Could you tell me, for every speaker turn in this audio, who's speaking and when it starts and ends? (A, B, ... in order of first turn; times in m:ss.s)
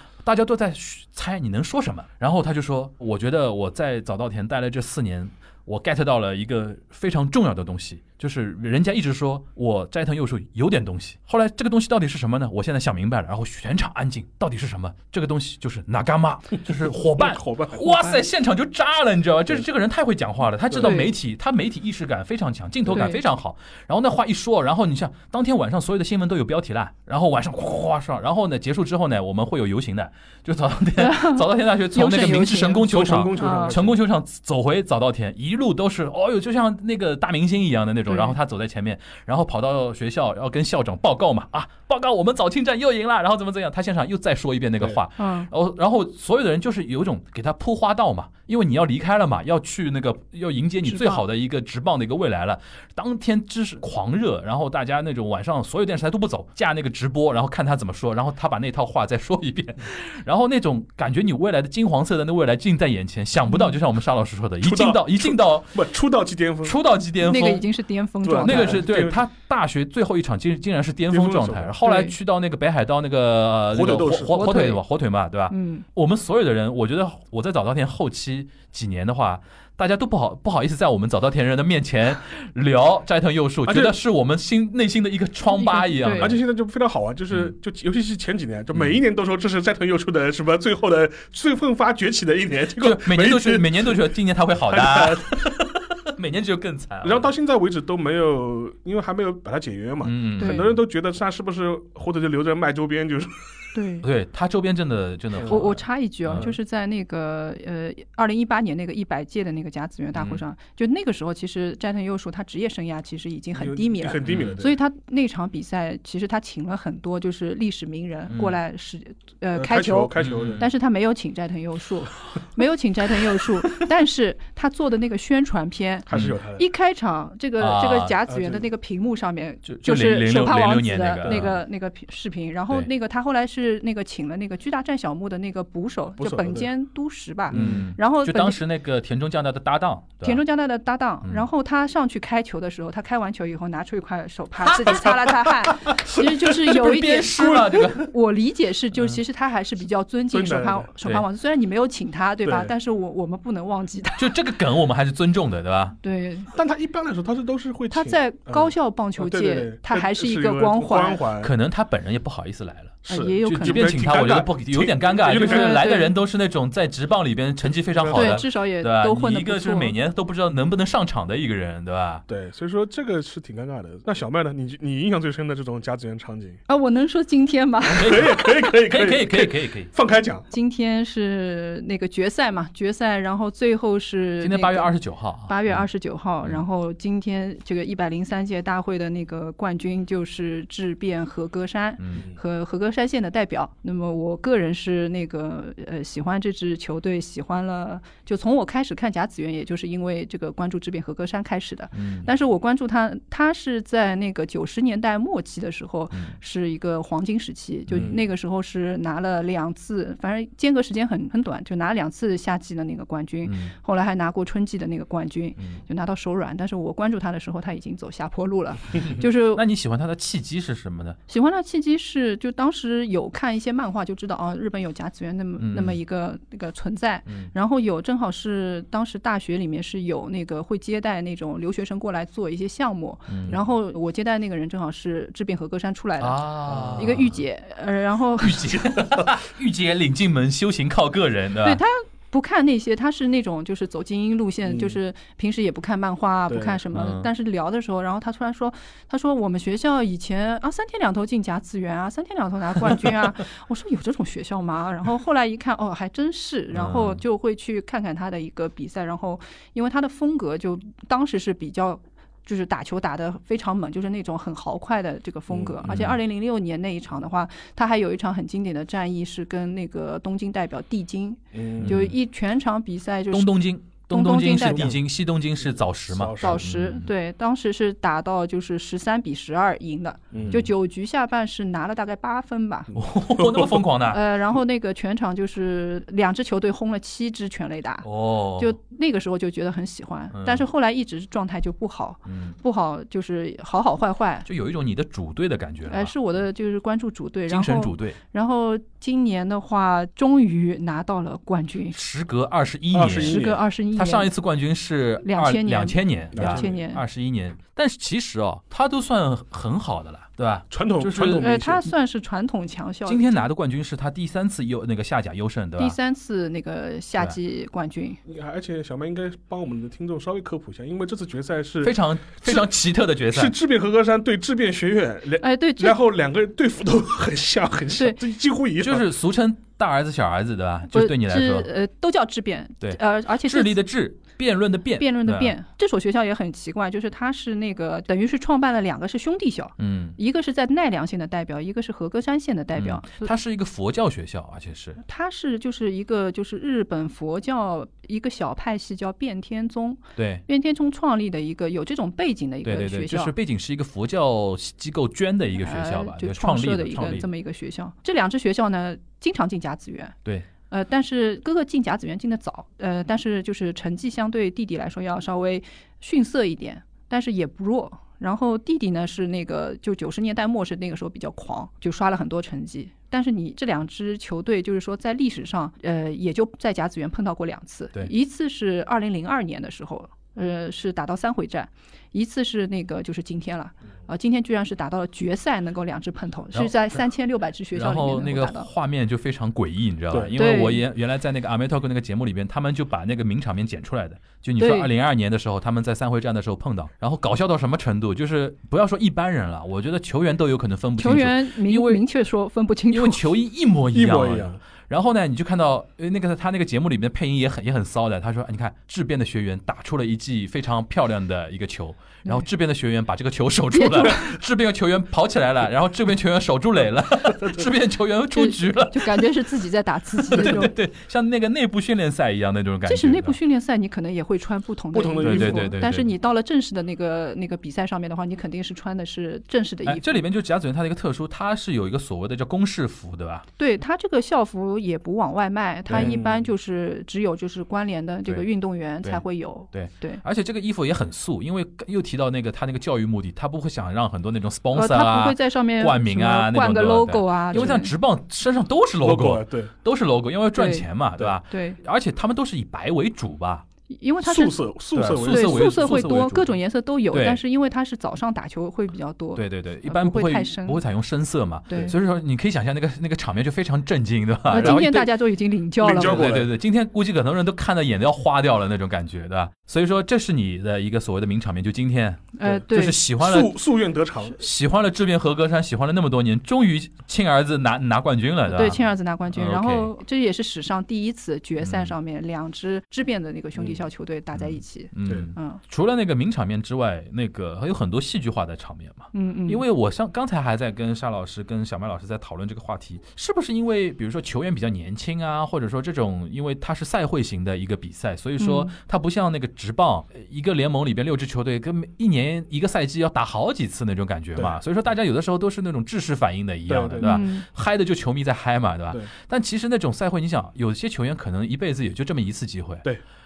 0:00.2-1:05.8 A
0:16.7-0:18.3 B
0:20.7-0:21.1 B
0:20.8-0:21.1 C
0:22.8-0:23.1 B
0:22.9-0:23.2 C
0:31.0-0:33.8 C
0:32.8-0:34.0 B
0:38.1-0:38.4 C
0:45.2-0:45.5 C
0:50.8-0:51.2 C
1:04.6-1:06.8 B
1:06.6-1:07.6 A
1:07.2-1:08.8 C
1:08.2-1:09.2 B
1:08.4-1:26.4 A
1:11.1-1:11.7 B
1:11.8-1:12.1 C
1:13.7-1:14.4 B
1:14.3-1:14.8 C
1:15.5-1:15.8 C
1:23.6-1:24.0 B
1:25.5-1:26.4 C
1:26.1-1:34.1 B
1:32.8-1:37.3 A
1:34.7-1:35.5 B
1:37.0-1:43.6 B
1:40.0-1:40.7 A
1:40.4-1:40.7 C
1:43.7-1:44.0 C
1:44.0-1:46.5 A
1:45.3-1:45.6 B
1:45.5-2:18.6 C
1:50.1-1:50.4 A
1:53.6-1:54.8 B
1:54.2-1:54.6 A
1:58.3-1:58.6 A
1:59.5-2:00.6 B
2:00.2-2:00.6 A
2:06.0-2:06.6 B
2:06.1-2:06.4 A
2:07.6-2:08.2 A
2:08.3-2:08.7 B
2:09.6-2:11.6 A
2:11.2-2:11.6 B
2:16.2-2:16.7 B
2:17.5-2:20.4 A
2:20.2-2:34.3 C
2:24.8-2:25.5 A
2:26.4-2:28.1 A
2:27.4-2:27.8 B
2:30.3-2:30.9 B
2:32.4-2:32.7 B
2:34.2-2:36.0 A
2:36.0-2:36.5 C
2:36.5-2:41.5 B
2:37.9-2:41.2 C
2:41.4-2:52.2 A
2:43.1-2:43.9 C
2:43.1-2:45.8 B
2:45.3-2:46.1 C
2:47.9-2:48.4 B
2:48.1-2:49.9 C
2:52.3-2:56.6 B
2:56.7-2:58.6 C
2:57.8-3:00.4 B
2:57.9-2:59.9 A
3:00.5-3:04.9 C
3:04.4-3:05.8 A
3:05.5-3:39.6 C
3:12.0-3:12.2 A
3:21.9-3:22.3 A
3:26.1-3:26.4 A
3:27.9-3:28.1 A
3:27.9-3:28.2 B
3:33.4-3:33.7 A
3:39.0-3:41.2 A
3:41.3-3:58.8 C
3:45.6-3:46.0 A
3:47.3-3:47.5 A
3:53.3-3:53.6 A
3:56.2-3:57.4 A
3:56.7-3:57.1 B
3:58.4-4:01.8 A
4:01.6-4:33.5 C
4:04.6-4:05.0 B
4:06.5-4:06.8 B
4:06.9-4:07.3 A
4:16.7-4:17.2 A
4:25.5-4:26.0 B
4:25.8-4:26.2 A
4:31.5-4:32.0 B
4:31.8-4:32.2 A
4:33.3-4:37.1 A
4:34.1-4:34.9 C
4:34.7-4:35.0 B
4:36.1-4:36.6 B
4:36.4-4:43.0 C
4:40.3-4:40.6 B
4:42.9-4:44.2 A
4:43.4-4:43.7 B
4:44.1-4:54.4 C
4:48.0-4:48.7 A
4:50.3-4:50.6 A
4:52.2-4:52.6 A
4:54.4-4:56.1 A
4:55.9-5:02.0 C
4:57.5-4:58.2 A
5:01.9-5:03.4 A
5:02.9-5:03.6 B
5:03.2-5:04.3 C
5:03.9-5:11.4 A
5:05.2-5:07.0 C
5:06.3-5:06.8 B
5:10.7-5:11.9 B
5:11.3-5:13.4 C
5:13.0-5:16.0 A
5:15.8-5:18.2 C
5:18.3-5:22.7 B
5:21.8-5:23.5 A
5:23.3-5:29.1 B
5:25.4-5:26.0 C
5:28.8-5:31.7 A
5:30.9-5:33.8 C
5:32.8-5:35.5 A
5:35.0-5:43.3 C
5:39.8-5:40.2 A
5:42.8-5:45.0 A
5:45.0-5:53.3 C
5:50.2-5:50.4 A
5:52.6-5:57.3 A
5:55.6-6:00.1 C
6:00.7-6:28.7 C
6:27.7-6:42.0 A
6:30.3-6:30.8 C
6:34.6-6:34.9 C
6:41.0-6:43.2 C
6:42.9-6:59.3 A
6:43.9-6:44.6 B
6:53.7-6:54.4 C
6:58.3-7:00.7 C
7:00.3-7:03.4 A
7:00.4-7:00.6 B
7:02.9-7:10.2 C
7:04.9-7:05.7 B
7:05.2-7:06.1 A
7:09.8-7:13.4 A
7:13.6-7:20.2 C
7:15.9-7:16.1 A
7:15.9-7:16.5 B
7:19.0-7:33.6 A
7:24.7-7:27.9 C
7:27.5-7:27.8 B
7:29.0-7:29.7 B
7:30.5-7:30.9 C
7:31.5-7:31.8 C
7:33.9-7:34.6 C
7:34.2-7:36.1 B
7:34.9-7:36.5 A
7:35.2-7:40.8 C
7:37.1-7:37.4 A
7:39.3-7:45.1 A
7:41.7-7:41.9 C
7:44.5-7:46.2 C
7:44.5-7:44.9 B
7:45.8-7:46.5 B
7:45.9-7:53.6 A
7:52.3-7:53.0 C
7:53.2-7:54.4 B
7:54.4-7:59.9 A
7:58.4-8:05.6 C
8:01.6-8:01.9 A
8:04.3-8:32.8 A
8:09.1-8:09.6 C
8:18.4-8:18.7 C
8:26.7-8:27.2 B
8:27.0-8:27.4 C